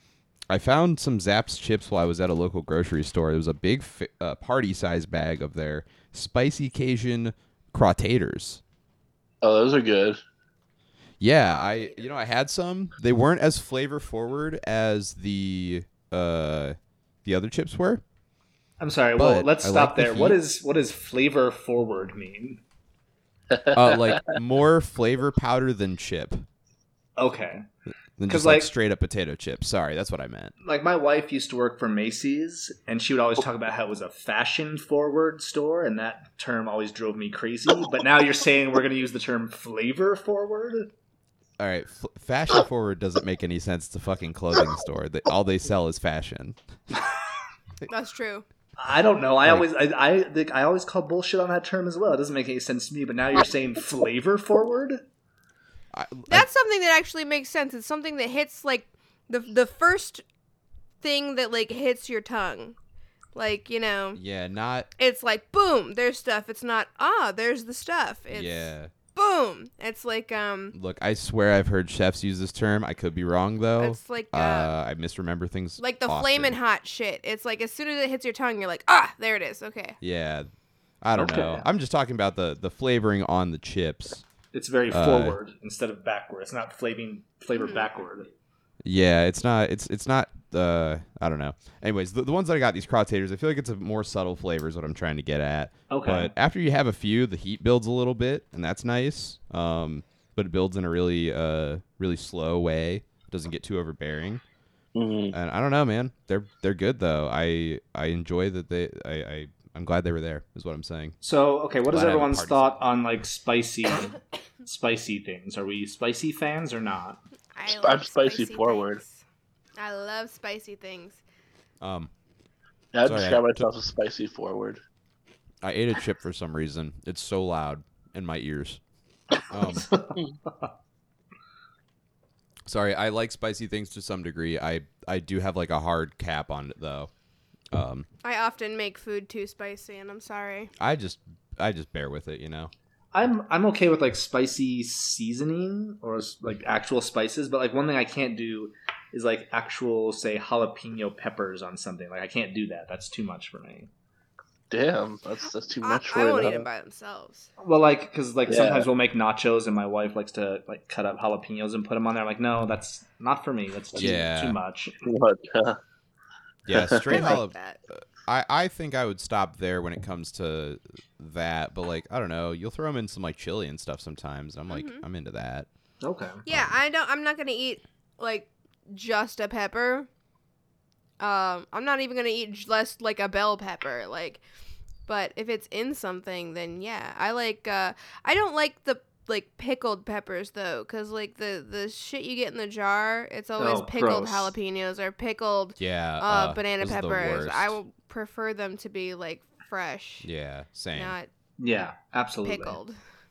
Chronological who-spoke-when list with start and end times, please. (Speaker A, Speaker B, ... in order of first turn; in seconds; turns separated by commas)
Speaker A: 0.5-8.6, Speaker B: 9.4-10.2, Speaker A: 11.2-18.0, Speaker C: 18.8-22.6, Speaker A: 19.2-20.4, Speaker B: 23.5-24.2, Speaker A: 23.7-26.4, Speaker C: 27.2-27.6, Speaker A: 28.2-30.5, Speaker C: 28.3-28.7, Speaker C: 30.6-40.9, Speaker A: 41.6-46.6, Speaker D: 47.9-48.4, Speaker C: 48.8-55.0, Speaker A: 55.9-56.5, Speaker D: 56.3-60.2, Speaker D: 61.0-62.8, Speaker D: 63.3-64.2, Speaker A: 64.2-64.9, Speaker D: 65.0-70.7, Speaker A: 68.3-68.9, Speaker A: 70.7-76.5, Speaker D: 73.8-74.7, Speaker D: 75.8-80.0, Speaker A: 80.0-80.5, Speaker A: 81.0-84.2, Speaker C: 81.2-81.7, Speaker C: 84.5-88.3, Speaker A: 84.9-85.4, Speaker D: 87.5-87.9, Speaker A: 88.8-104.4, Speaker C: 95.9-96.3, Speaker B: 104.9-105.3, Speaker A: 105.3-111.2, Speaker C: 111.2-117.2, Speaker A: 111.9-112.8, Speaker D: 117.5-119.2, Speaker B: 117.7-119.0, Speaker D: 119.8-121.2, Speaker A: 121.8-122.1, Speaker B: 122.9-124.8, Speaker A: 123.0-123.7, Speaker A: 125.6-128.8, Speaker A: 129.5-129.9, Speaker C: 129.7-130.7, Speaker A: 132.7-137.1, Speaker A: 137.7-138.1, Speaker D: 138.2-140.7, Speaker A: 140.8-142.7, Speaker C: 143.1-153.9, Speaker B: 154.7-156.6, Speaker D: 155.8-157.5, Speaker C: 157.6-164.9, Speaker B: 158.5-158.9, Speaker A: 163.9-164.6, Speaker B: 165.0-165.8, Speaker A: 166.7-175.7, Speaker B: 166.7-167.3, Speaker D: 167.1-167.8, Speaker D: 174.7-175.0, Speaker C: 176.0-176.4, Speaker D: 176.4-180.1, Speaker D: 181.2-184.4, Speaker D: 185.1-200.3, Speaker C: 193.6-194.5, Speaker A: 195.8-197.8, Speaker A: 200.2-201.2, Speaker D: 200.9-201.3, Speaker C: 201.6-202.8, Speaker D: 202.4-203.0